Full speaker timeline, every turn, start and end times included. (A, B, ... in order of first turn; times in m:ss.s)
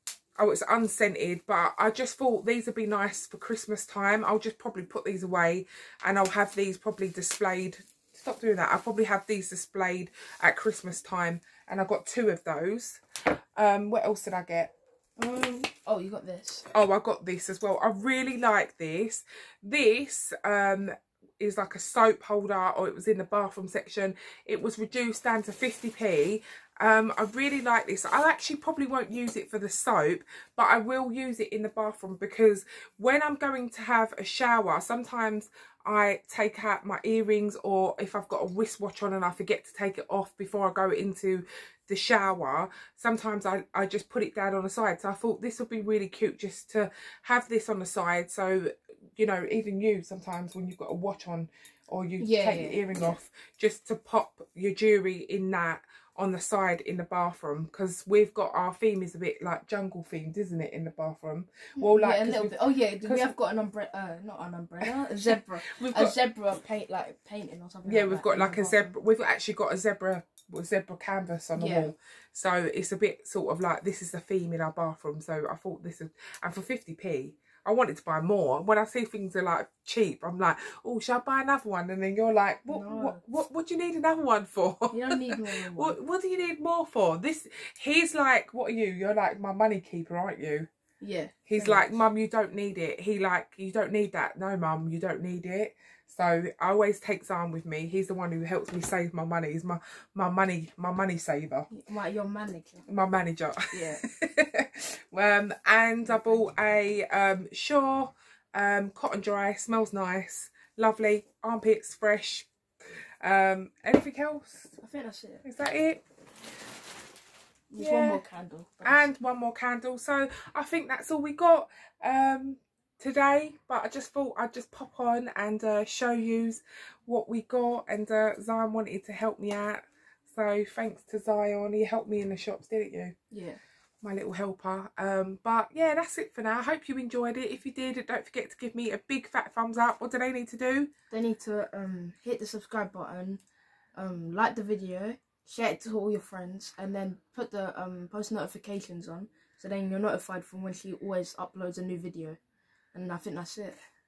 0:00.4-0:13.0 A
0:13.6-0:14.7 A
0:15.2-0:16.7 B
0:16.7-1:03.4 A
0:52.2-0:53.2 B
1:01.8-1:09.0 B
1:04.9-1:06.2 A
1:07.9-1:30.7 A
1:11.6-1:11.9 B
1:22.7-1:23.2 B
1:24.9-1:26.0 B
1:31.0-1:32.0 B
1:31.5-1:41.7 A
1:41.7-1:42.8 B
1:42.9-1:52.5 A
1:43.7-1:44.0 B
1:53.2-1:54.8 A
1:54.8-1:55.4 B
1:55.4-1:56.0 A
1:57.7-1:59.1 B
1:57.8-1:58.2 A
1:58.8-2:13.1 A
2:13.3-2:13.6 B
2:14.0-2:20.9 A
2:21.1-2:23.4 B
2:24.0-2:32.4 B
2:32.9-2:33.8 B